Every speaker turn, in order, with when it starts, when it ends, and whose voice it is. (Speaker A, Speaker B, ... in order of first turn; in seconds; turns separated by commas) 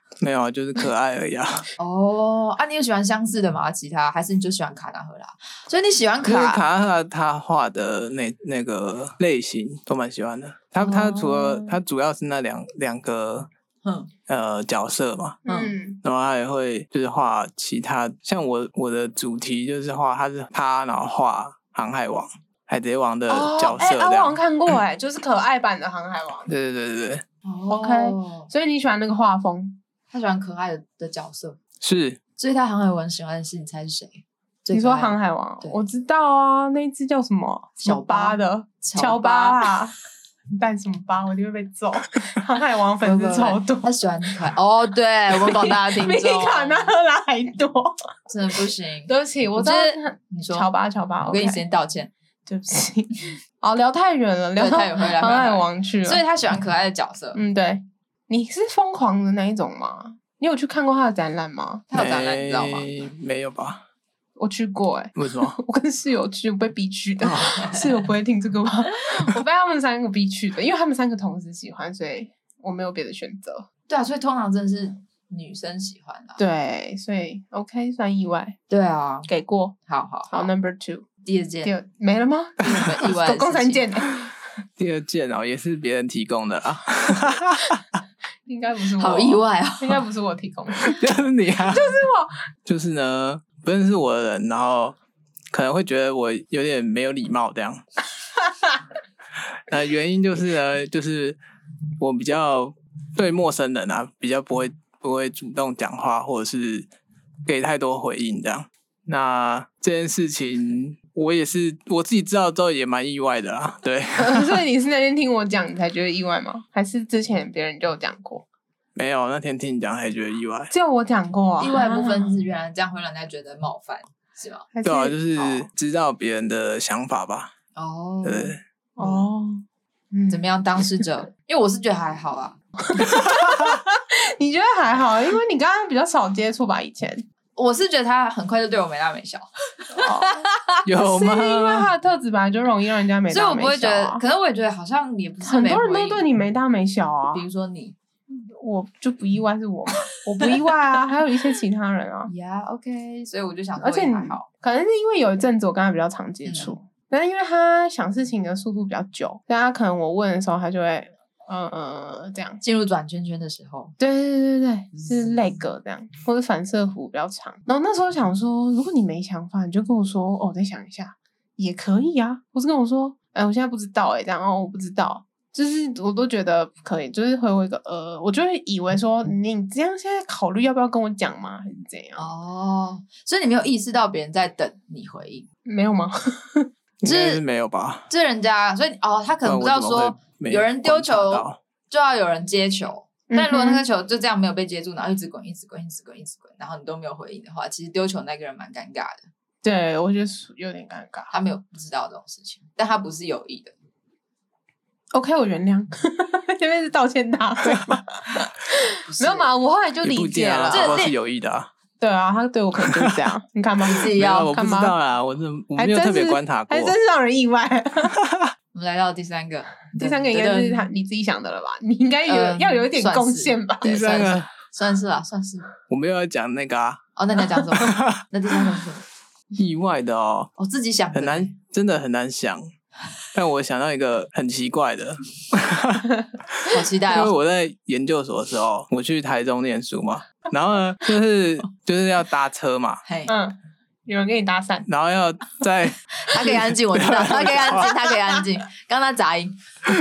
Speaker A: 0.2-1.7, Speaker B: 1.8-6.6, Speaker A: 6.2-13.5, Speaker B: 10.8-11.7, Speaker B: 13.8-14.1, Speaker A: 14.3-15.4, Speaker C: 15.4-16.0, Speaker B: 15.5-15.7, Speaker A: 16.0-24.4, Speaker C: 23.3-26.5, Speaker A: 26.5-27.2, Speaker B: 27.4-28.5, Speaker C: 27.7-29.8, Speaker B: 30.1-31.6, Speaker A: 31.8-32.2, Speaker B: 32.4-35.8, Speaker C: 34.7-40.0, Speaker B: 37.8-39.6, Speaker C: 40.6-43.9, Speaker B: 43.0-46.9, Speaker C: 45.5-48.0, Speaker B: 48.3-50.7, Speaker C: 49.1-51.6, Speaker B: 51.3-52.1, Speaker C: 52.5-56.2, Speaker B: 54.6-57.4, Speaker C: 57.4-61.9, Speaker B: 61.9-62.9, Speaker A: 61.9-63.8, Speaker C: 64.4-73.7, Speaker A: 65.2-65.6, Speaker A: 67.2-67.6, Speaker B: 73.9-76.4, Speaker C: 76.4-78.6, Speaker B: 78.7-79.3, Speaker C: 79.3-79.8, Speaker B: 79.9-80.5, Speaker C: 80.3-81.1, Speaker B: 81.2-81.7, Speaker C: 81.7-84.3, Speaker B: 82.6-83.8, Speaker A: 84.8-87.8, Speaker C: 88.5-91.0, Speaker B: 89.0-90.0, Speaker A: 90.8-91.9, Speaker C: 91.7-92.3, Speaker A: 92.7-95.0, Speaker A: 95.5-97.8, Speaker A: 99.7-101.4, Speaker A: 102.0-106.9, Speaker A: 107.5-114.6, Speaker C: 114.2-118.4, Speaker A: 119.0-120.7, Speaker C: 120.7-122.4, Speaker B: 121.6-124.7, Speaker C: 124.7-125.2, Speaker A: 124.8-127.5, Speaker B: 125.4-125.7, Speaker B: 127.8-128.6, Speaker A: 128.2-129.2, Speaker C: 129.0-130.5, Speaker B: 130.3-132.6, Speaker C: 132.9-137.2, Speaker B: 137.6-140.7, Speaker C: 139.9-140.4, Speaker A: 140.8-141.9, Speaker C: 140.9-144.2, Speaker B: 143.3-146.3, Speaker C: 145.4-147.4, Speaker B: 147.3-148.0, Speaker C: 148.5-152.3, Speaker B: 152.3-154.5, Speaker C: 153.8-162.6, Speaker B: 156.4-156.8, Speaker B: 162.6-163.9, Speaker C: 164.0-182.3, Speaker B: 164.9-165.4, Speaker B: 182.2-185.5, Speaker C: 185.7-186.7, Speaker A: 187.0-188.1, Speaker B: 187.1-187.4, Speaker B: 188.1-199.2, Speaker A: 189.4-191.6, Speaker C: 193.3-193.8, Speaker C: 199.6-201.3, Speaker B: 201.3-203.7, Speaker C: 205.1-208.2, Speaker C: 208.7-211.0, Speaker B: 209.1-209.5, Speaker A: 210.0-211.7, Speaker B: 210.7-211.1, Speaker C: 212.0-215.0, Speaker A: 212.8-213.2, Speaker B: 213.8-214.5, Speaker A: 213.9-216.9, Speaker C: 215.8-218.2, Speaker A: 218.1-218.5, Speaker B: 218.7-220.9, Speaker C: 220.0-223.9, Speaker B: 222.3-225.7, Speaker A: 223.8-224.5, Speaker A: 225.9-227.0, Speaker B: 227.2-229.0, Speaker A: 227.8-228.2, Speaker A: 229.5-230.5, Speaker B: 230.6-231.5, Speaker A: 231.1-232.7, Speaker A: 233.3-243.0, Speaker B: 236.7-237.3, Speaker B: 243.1-243.3, Speaker C: 243.3-244.9, Speaker A: 244.9-247.9, Speaker B: 246.2-249.6